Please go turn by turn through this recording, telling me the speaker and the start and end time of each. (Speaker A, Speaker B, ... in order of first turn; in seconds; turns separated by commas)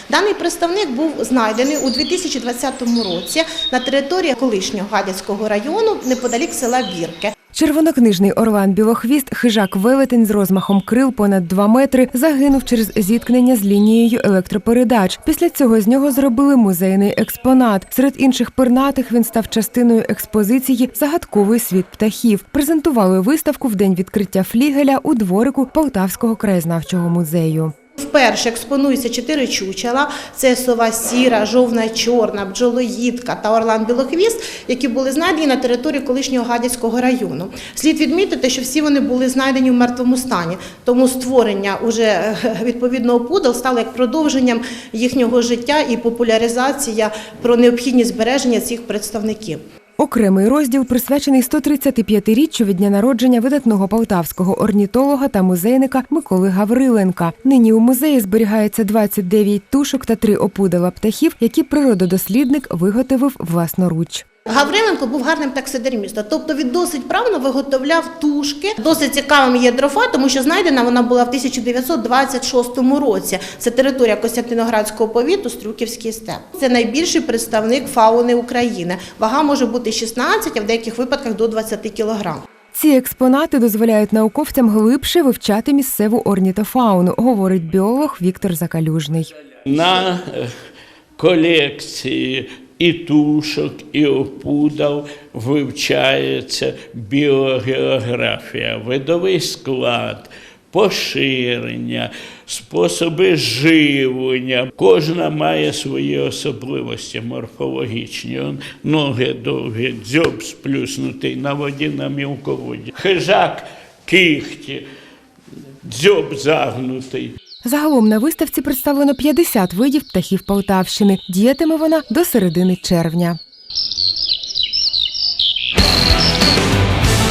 Speaker A: 0.1-7.3, Speaker B: 7.5-27.7, Speaker A: 28.0-49.6, Speaker B: 50.0-64.2, Speaker A: 64.5-82.4, Speaker B: 82.7-89.3, Speaker C: 89.7-90.5, Speaker C: 91.2-114.8, Speaker C: 115.9-117.3, Speaker B: 117.6-123.4